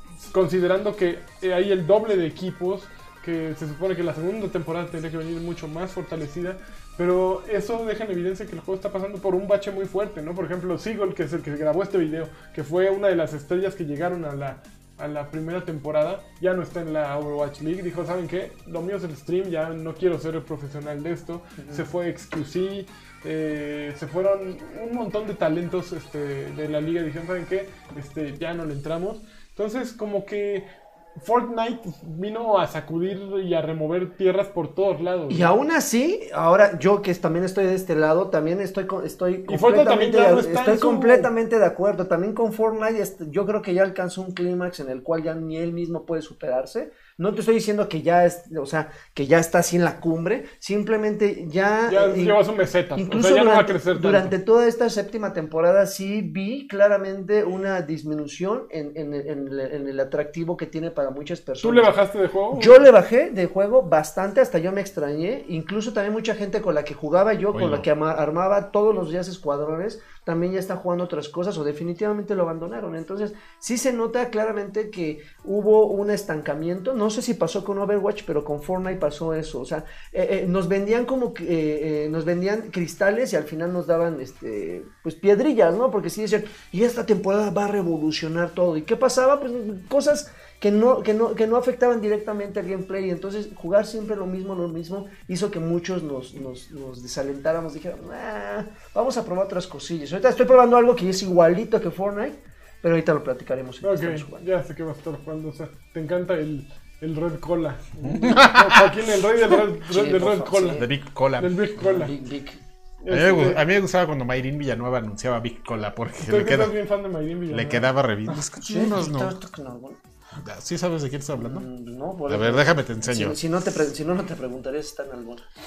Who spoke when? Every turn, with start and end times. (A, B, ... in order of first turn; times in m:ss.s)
0:00.3-0:30.7 A
0:21.6-0:21.9 B
0:31.2-0:35.6 A
0:35.3-0:52.4 B
0:39.5-0:41.3 A
0:51.9-0:54.3 A
0:53.0-1:01.9 B
1:01.6-1:02.9 A
1:02.5-1:44.5 B
1:07.5-1:07.9 C
1:43.8-1:50.9 A
1:48.0-1:49.0 C
1:49.8-1:50.9 B
1:50.8-1:51.6 C
1:51.4-1:52.1 A
1:51.8-1:52.6 B
1:53.0-1:53.6 A
1:53.1-1:56.8 C
1:56.2-1:57.9 A
1:57.5-1:59.4 C
1:58.6-2:00.0 B
2:00.4-2:01.7 C
2:01.4-2:05.4 B
2:02.3-2:03.4 C